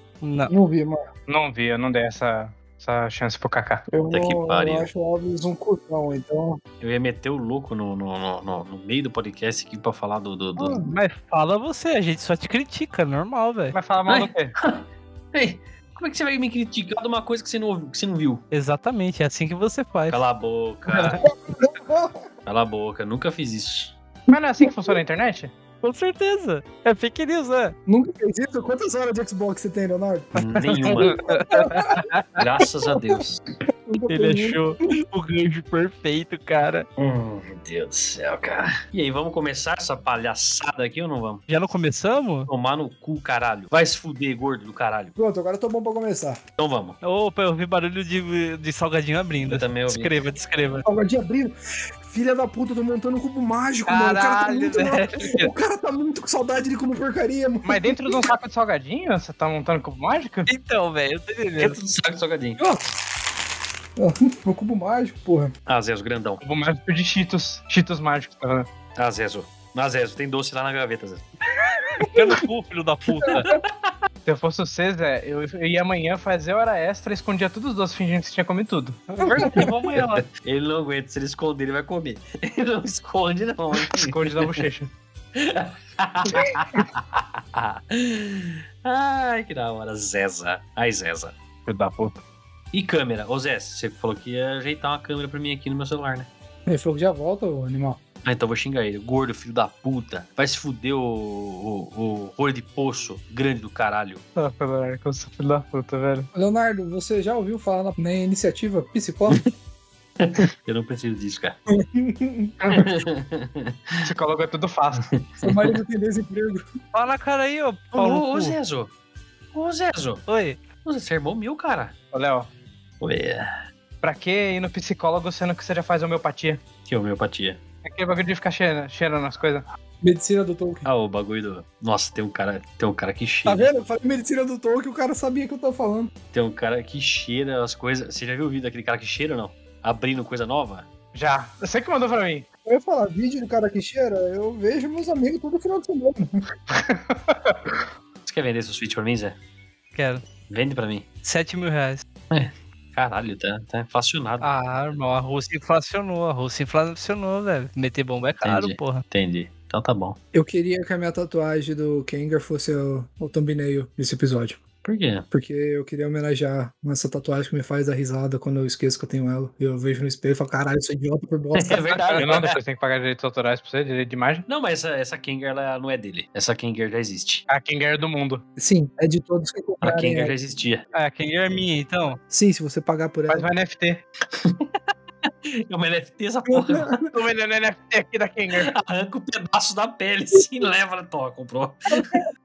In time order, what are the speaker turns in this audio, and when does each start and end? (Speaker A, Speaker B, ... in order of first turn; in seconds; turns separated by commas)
Speaker A: 0.2-0.5, Speaker B: 0.5-1.0, Speaker C: 1.3-3.9, Speaker B: 3.9-6.6, Speaker D: 4.1-4.9, Speaker D: 6.8-10.8, Speaker B: 10.6-10.8, Speaker A: 10.8-13.8, Speaker C: 13.7-14.5, Speaker D: 14.1-18.4, Speaker A: 18.5-20.2, Speaker D: 20.1-21.2, Speaker B: 21.2-22.2, Speaker D: 22.5-24.0, Speaker C: 24.3-25.5, Speaker B: 24.6-25.0, Speaker A: 25.8-27.8, Speaker B: 27.9-32.1, Speaker D: 30.4-31.2, Speaker A: 30.6-32.5, Speaker D: 32.4-33.4, Speaker B: 33.9-34.6, Speaker A: 34.1-36.9, Speaker D: 37.0-41.4, Speaker A: 41.5-42.5, Speaker D: 42.5-45.1, Speaker B: 45.2-46.4, Speaker D: 46.6-47.0, Speaker A: 47.0-50.9, Speaker D: 49.5-50.1, Speaker B: 50.8-58.3, Speaker A: 53.9-55.5, Speaker C: 57.6-60.5, Speaker A: 60.5-61.8, Speaker D: 61.6-62.6, Speaker B: 64.0-65.5, Speaker D: 65.7-66.4, Speaker C: 66.4-68.7, Speaker D: 69.0-71.3, Speaker A: 72.0-73.6, Speaker B: 72.0-72.3, Speaker D: 73.3-73.9, Speaker C: 74.2-79.2, Speaker A: 79.2-80.3, Speaker B: 79.2-79.7, Speaker D: 79.5-84.6, Speaker C: 83.9-84.9, Speaker D: 85.3-91.3, Speaker C: 91.7-92.2, Speaker D: 92.7-96.3, Speaker B: 96.7-98.0, Speaker D: 98.2-104.2, Speaker C: 104.4-106.3, Speaker B: 106.3-109.4, Speaker D: 110.2-111.6, Speaker B: 111.7-112.9, Speaker D: 112.7-114.1, Speaker C: 114.0-115.1, Speaker D: 115.0-115.8, Speaker B: 115.4-116.6, Speaker A: 116.9-118.6, Speaker D: 117.9-118.9, Speaker D: 119.5-120.2, Speaker A: 120.3-120.6, Speaker D: 120.8-121.9, Speaker C: 122.1-122.5, Speaker D: 123.0-123.5, Speaker C: 124.0-126.6, Speaker D: 126.9-127.6, Speaker C: 127.8-129.7, Speaker B: 130.0-130.9, Speaker D: 130.8-133.7, Speaker B: 133.5-136.1, Speaker D: 136.3-140.9, Speaker C: 141.1-142.5, Speaker B: 142.7-146.4, Speaker C: 146.7-147.6, Speaker D: 148.2-149.4, Speaker A: 149.9-150.2, Speaker D: 150.5-151.1, Speaker A: 151.2-152.1, Speaker D: 152.3-154.5, Speaker A: 154.4-159.0, Speaker D: 158.4-160.2, Speaker B: 160.3-164.6, Speaker D: 164.8-165.3, Speaker B: 165.3-171.8, Speaker D: 171.5-172.6, Speaker A: 171.9-172.2, Speaker C: 172.2-174.5, Speaker D: 174.5-177.4, Speaker C: 177.5-178.4, Speaker B: 178.6-180.3, Speaker D: 179.8-180.8, Speaker A: 180.9-182.2, Speaker B: 182.3-183.5, Speaker C: 183.3-184.0, Speaker D: 184.3-184.8, Speaker D: 185.3-187.1, Speaker B: 186.5-187.0, Speaker C: 187.1-188.7, Speaker D: 188.5-192.2